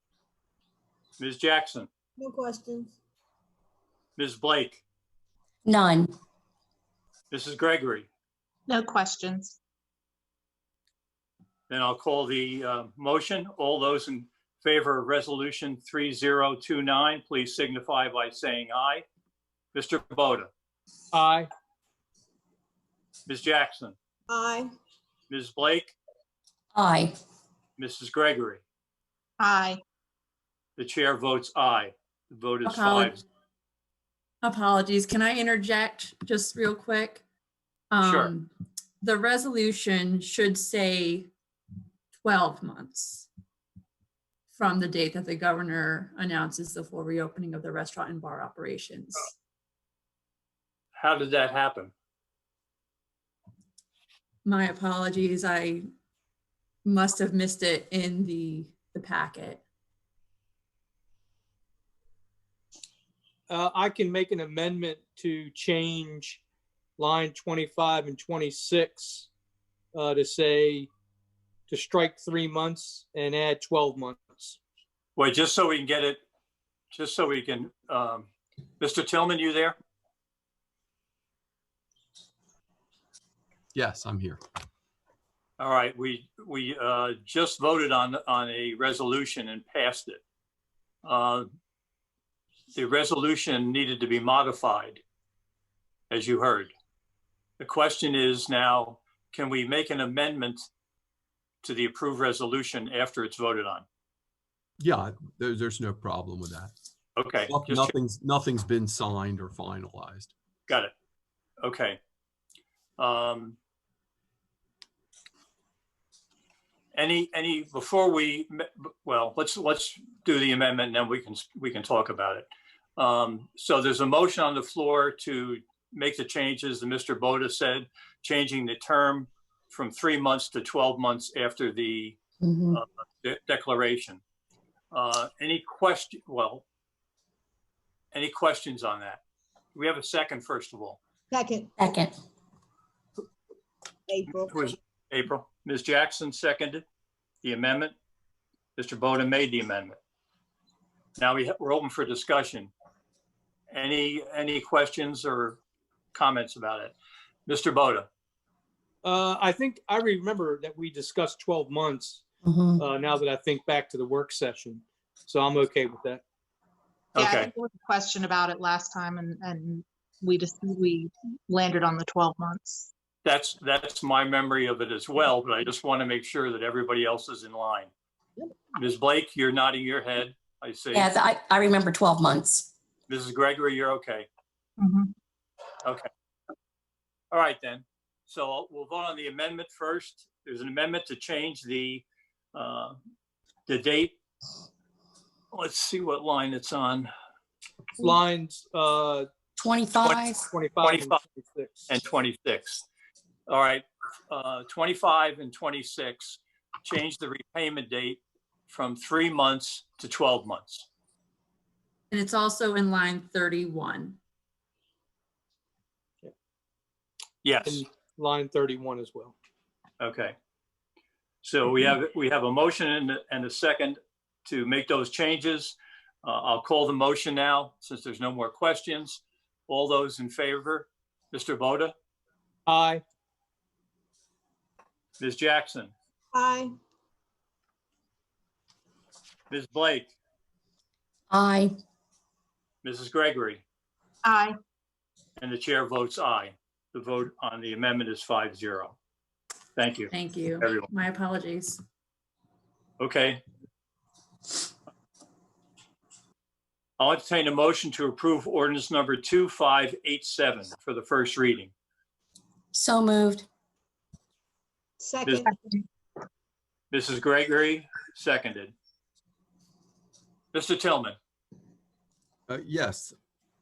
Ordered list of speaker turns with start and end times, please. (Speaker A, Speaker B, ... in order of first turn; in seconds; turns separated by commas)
Speaker A: 1.2-1.9, Speaker B: 2.2-2.9, Speaker A: 4.2-4.8, Speaker C: 5.7-6.1, Speaker A: 7.3-8.1, Speaker D: 8.7-9.5, Speaker A: 11.7-19.0, Speaker A: 19.7-20.5, Speaker E: 21.1-21.5, Speaker A: 23.3-23.9, Speaker B: 24.3-24.7, Speaker A: 25.3-25.9, Speaker C: 26.7-27.1, Speaker A: 27.8-28.6, Speaker D: 29.4-29.8, Speaker A: 30.8-33.2, Speaker F: 32.6-33.1, Speaker F: 34.4-37.2, Speaker F: 37.9-38.5, Speaker A: 38.0-38.3, Speaker F: 39.0-41.3, Speaker F: 42.2-43.3, Speaker F: 44.5-49.3, Speaker A: 50.9-51.9, Speaker F: 54.4-55.8, Speaker F: 56.8-59.6, Speaker E: 63.5-66.4, Speaker E: 67.0-69.3, Speaker E: 69.9-70.9, Speaker E: 71.7-74.6, Speaker A: 75.2-76.2, Speaker A: 76.9-78.3, Speaker A: 78.8-79.8, Speaker G: 83.7-84.4, Speaker A: 85.6-90.2, Speaker A: 91.0-91.5, Speaker A: 92.7-95.0, Speaker A: 96.1-96.7, Speaker A: 97.6-100.7, Speaker A: 101.6-103.8, Speaker G: 104.8-106.7, Speaker A: 107.2-107.9, Speaker G: 107.5-110.3, Speaker A: 111.6-112.0, Speaker A: 113.0-113.6, Speaker A: 116.9-132.2, Speaker C: 132.4-132.8, Speaker A: 132.7-134.2, Speaker A: 134.9-136.6, Speaker A: 138.1-139.2, Speaker A: 139.7-141.0, Speaker B: 141.3-141.7, Speaker C: 141.8-142.1, Speaker B: 144.1-144.7, Speaker A: 144.4-146.8, Speaker A: 147.4-147.9, Speaker A: 148.8-150.0, Speaker A: 151.2-152.7, Speaker A: 153.7-155.6, Speaker A: 156.1-156.9, Speaker A: 157.5-158.1, Speaker E: 159.0-166.2, Speaker C: 162.4-162.8, Speaker A: 167.2-167.5, Speaker D: 167.2-172.9, Speaker A: 173.2-177.9, Speaker A: 178.8-181.1, Speaker C: 180.9-182.7, Speaker A: 183.1-184.3, Speaker D: 184.8-185.1, Speaker A: 187.3-192.0, Speaker A: 192.5-193.0, Speaker A: 193.7-194.2, Speaker A: 195.5-197.1, Speaker E: 198.0-199.3, Speaker C: 199.6-200.5, Speaker E: 200.4-202.0, Speaker A: 200.8-201.2, Speaker A: 201.9-202.8, Speaker A: 203.5-210.8, Speaker F: 212.1-214.2, Speaker A: 217.4-217.8, Speaker E: 217.6-219.3, Speaker A: 220.0-220.3, Speaker A: 221.4-231.9, Speaker E: 232.7-233.0, Speaker A: 235.2-235.9, Speaker B: 236.3-236.7, Speaker A: 239.5-240.1, Speaker C: 241.3-241.7, Speaker A: 242.8-243.6, Speaker D: 244.3-244.5, Speaker A: 245.4-248.9, Speaker A: 249.8-250.9, Speaker F: 250.1-251.8, Speaker A: 253.0-253.4, Speaker A: 257.0-261.7, Speaker C: 262.7-263.4, Speaker B: 265.0-265.5, Speaker A: 266.9-268.7, Speaker A: 270.5-271.1, Speaker G: 272.5-273.1